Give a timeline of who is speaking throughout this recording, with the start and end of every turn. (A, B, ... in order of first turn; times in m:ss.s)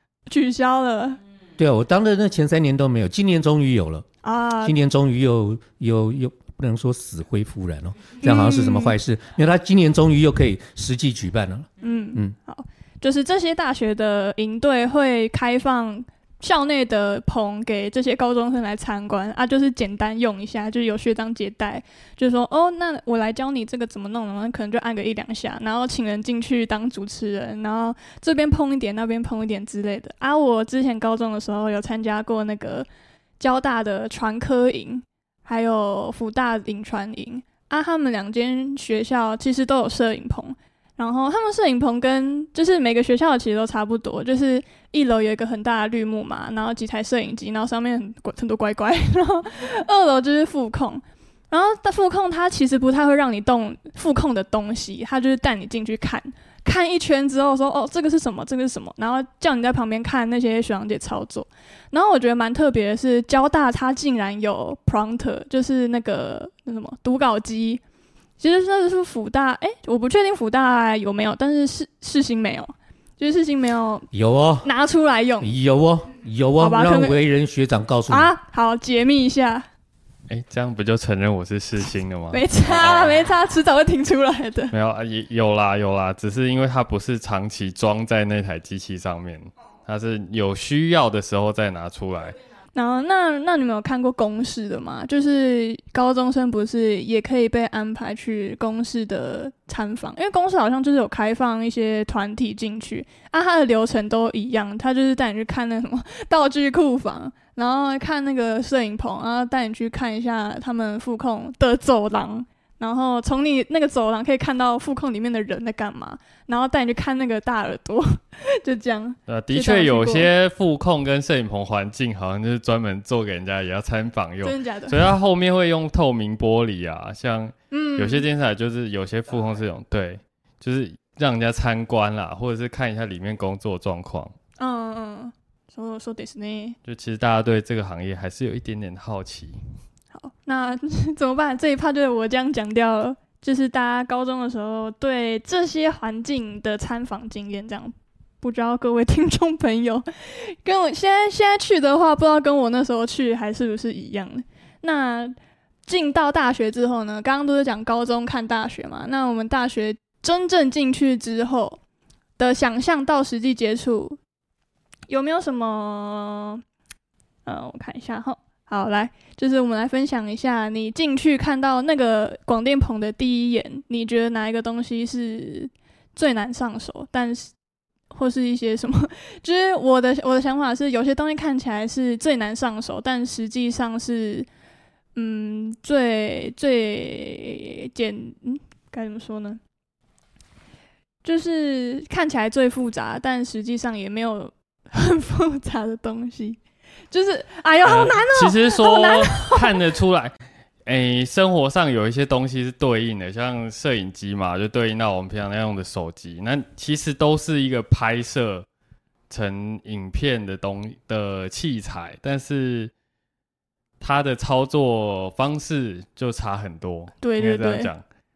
0:00.3-0:01.2 A
0:01.6-0:04.0 B
0:04.2-0:04.8 A
0:04.6-0:12.3 B
0:08.2-0:08.9 A
0:11.8-0:32.9 A
0:33.4-1:07.8 A
1:08.4-1:14.1 A
1:14.1-1:14.7 B
1:14.6-1:15.5 A
1:15.4-1:18.3 B
1:16.6-1:17.2 A
1:18.1-1:19.7 A
1:20.3-1:23.3 C
1:22.3-1:24.7 A
1:24.7-1:32.4 C
1:32.7-2:00.3 A
1:59.3-2:14.3 C
2:04.4-2:05.1 A
2:07.7-2:08.3 A
2:14.6-2:16.8 A
2:16.8-2:19.6 C
2:20.1-2:35.4 A
2:35.9-2:41.8 A
2:42.4-2:44.2 A
2:45.1-2:46.6 A
2:47.4-2:57.5 A
2:58.1-3:04.5 A
3:05.2-3:09.6 A
3:11.2-3:16.6 A
3:17.1-3:19.8 A
3:17.8-3:28.6 C
3:29.3-3:32.9 C
3:34.0-3:38.0 C
3:37.2-3:37.9 A